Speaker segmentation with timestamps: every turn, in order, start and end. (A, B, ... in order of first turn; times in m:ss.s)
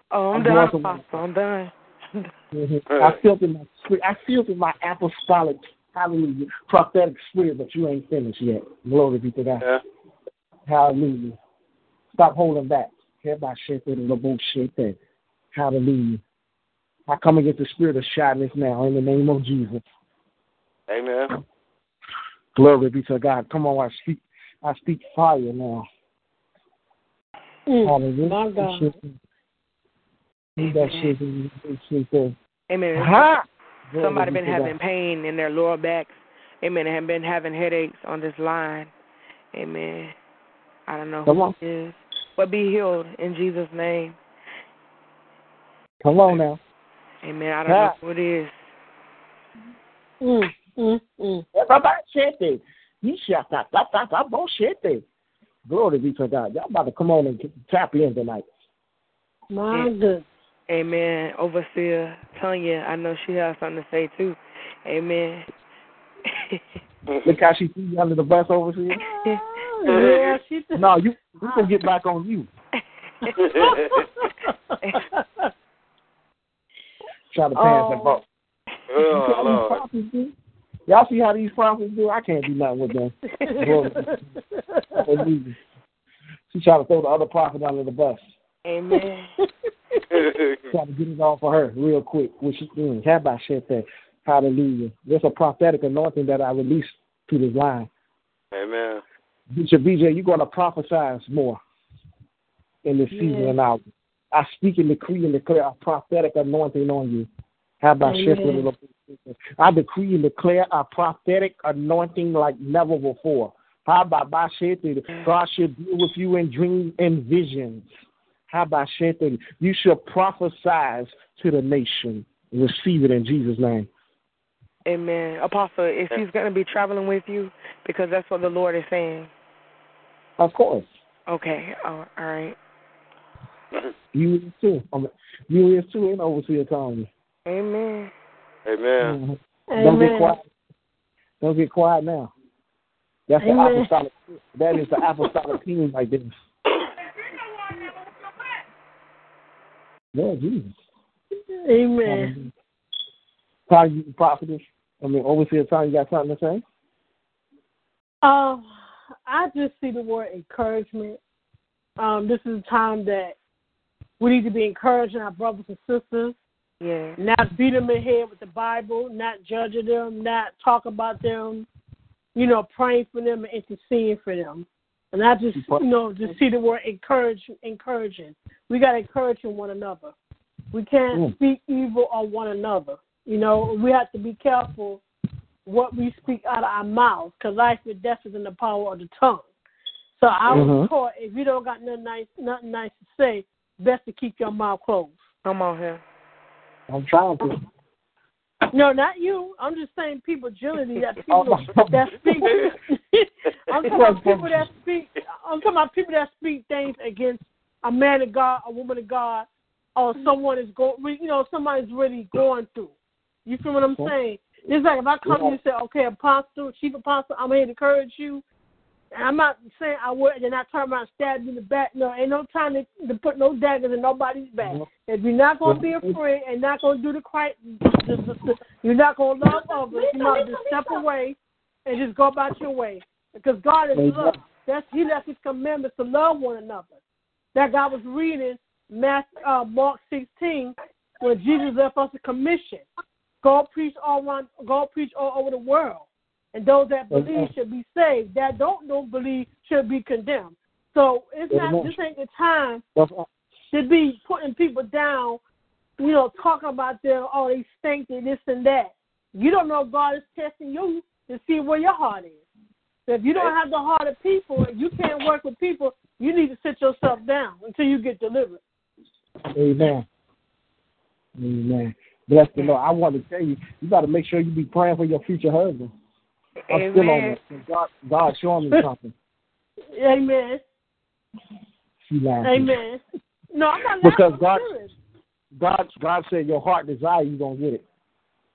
0:00.1-0:02.3 A
0:00.3-0:01.0 B
0:02.5-0:09.7 B
0:02.9-0:03.2 C
0:10.7-0:11.4 B
0:12.2-0:15.0 B
0:15.5-0:16.2 B
0:17.1-0:19.8 B
0:20.9-0:21.4 C
0:22.6-0:25.9 B
0:27.7-0:29.0 D
0:27.8-0:29.2 B
0:30.6-0:32.4 B
0:30.6-0:31.1 A
0:32.7-0:33.3 A
0:32.9-0:34.8 B
0:34.0-0:38.9 A
0:39.5-0:40.1 A
0:40.9-0:44.2 A
0:41.3-0:41.5 B
0:46.0-0:46.6 B
0:47.2-0:48.6 A
0:47.7-0:48.0 B
0:50.2-0:51.4 D
0:51.5-0:55.0 B
0:55.7-0:58.5 B
0:59.5-1:00.3 D
1:00.7-1:05.5 A
1:06.3-1:06.6 A
1:07.2-1:09.1 B
1:09.1-1:09.4 A
1:09.2-1:11.0 D
1:09.8-1:10.4 C
1:10.8-1:12.5 B
1:13.2-1:15.5 D
1:13.4-1:14.0 C
1:17.3-1:18.2 B
1:17.6-1:18.2 D
1:18.9-1:19.8 C
1:19.0-1:20.3 B
1:20.9-1:24.2 B
1:23.4-1:23.8 A
1:23.4-1:25.0 D
1:25.0-1:25.6 B
1:26.5-1:28.3 B
1:28.7-1:29.3 A
1:30.1-1:30.7 C
1:30.7-1:37.9 B
1:38.5-1:39.0 C
1:39.5-1:41.6 B
1:42.8-1:47.3 B
1:43.1-1:43.6 D
1:47.8-1:57.9 B
1:48.0-1:48.7 D
1:58.5-2:03.9 B
2:04.9-2:09.3 A
2:10.4-2:10.9 B
2:11.3-2:12.6 A
2:14.1-2:17.1 B
2:17.5-2:18.1 A
2:18.7-2:19.2 C
2:19.0-2:20.4 B
2:19.7-2:20.4 D
2:21.4-2:22.3 B
2:23.3-2:26.3 B
2:23.4-2:23.9 D
2:30.1-2:30.8 B
2:31.7-2:32.3 D
2:32.1-2:32.5 B
2:33.7-2:36.6 B
2:38.2-2:38.7 D
2:39.3-2:41.2 D
2:42.0-2:43.4 D
2:44.2-2:46.4 D
2:46.8-2:47.2 A
2:47.2-2:51.7 D
2:52.4-3:00.2 D
2:55.6-2:56.4 B
3:00.7-3:05.0 D
3:05.7-3:09.5 D
3:10.2-3:15.2 D
3:10.5-3:10.9 B
3:15.4-3:16.0 A
3:16.9-3:17.6 B
3:18.7-3:32.9 D
3:21.3-3:22.7 B
3:23.8-3:24.7 B
3:33.5-3:38.4 D
3:35.2-3:35.6 B
3:39.2-3:57.0 D
3:44.6-3:44.9 B
3:45.6-3:46.2 B
3:54.0-3:54.4 B
3:57.6-4:02.8 D
4:03.4-4:12.8 D
4:07.1-4:07.5 B
4:11.5-4:12.0 B
4:13.0-4:13.3 B
4:13.7-4:15.4 D
4:16.0-4:22.4 D
4:23.1-4:28.6 D
4:29.5-4:30.1 B
4:31.4-4:35.9 B
4:36.7-4:37.4 A
4:36.7-4:39.1 B
4:39.9-4:40.6 D
4:42.0-4:42.8 B
4:42.4-4:43.0 D
4:43.5-4:44.9 D
4:44.0-4:44.7 B
4:45.6-4:47.8 B